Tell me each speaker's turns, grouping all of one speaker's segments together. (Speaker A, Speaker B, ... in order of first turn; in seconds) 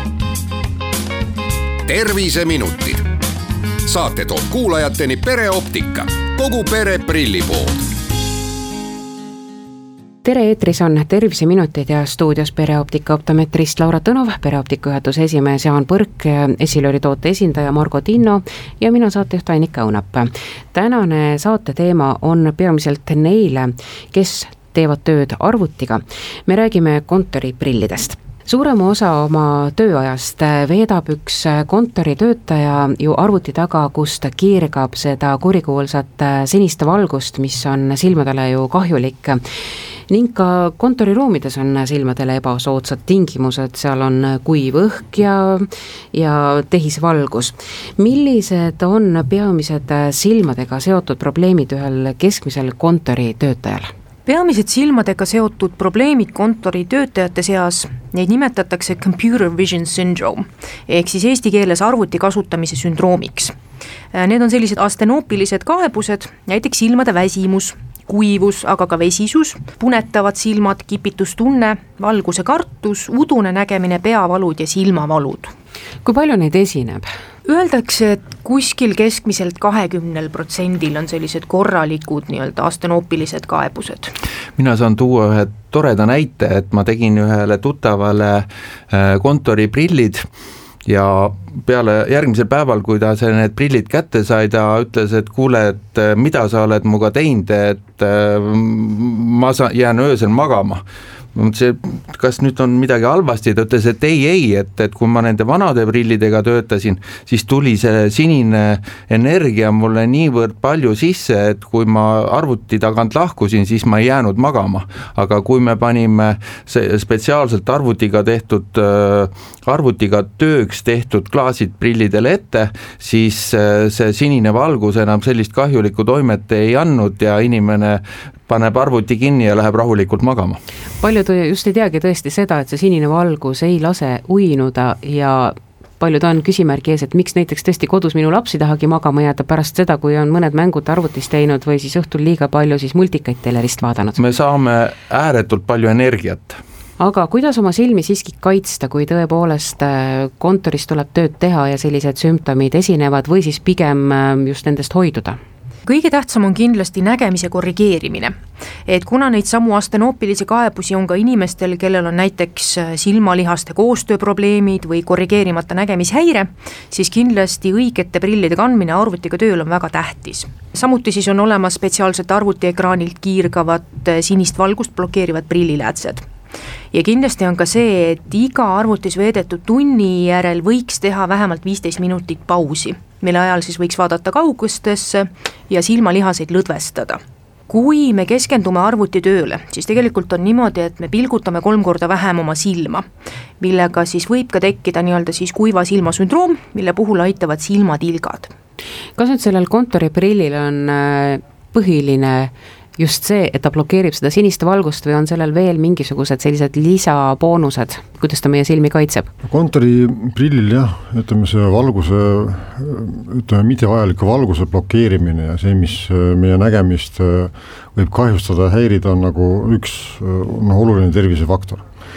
Speaker A: 1.8-3.1, 3.8-7.8
Speaker B: 10.2-39.4, 40.1-53.9, 76.0-77.1, 131.0-144.2, 147.0-155.4, 199.2-209.3
Speaker C: 54.2-63.5, 64.1-75.5, 77.5-84.1, 155.8-158.3, 158.9-176.2, 176.9-193.1, 193.6-198.5
Speaker D: 84.6-90.2, 90.8-100.8, 101.3-130.6, 144.2-146.6
Speaker E: 209.4-221.8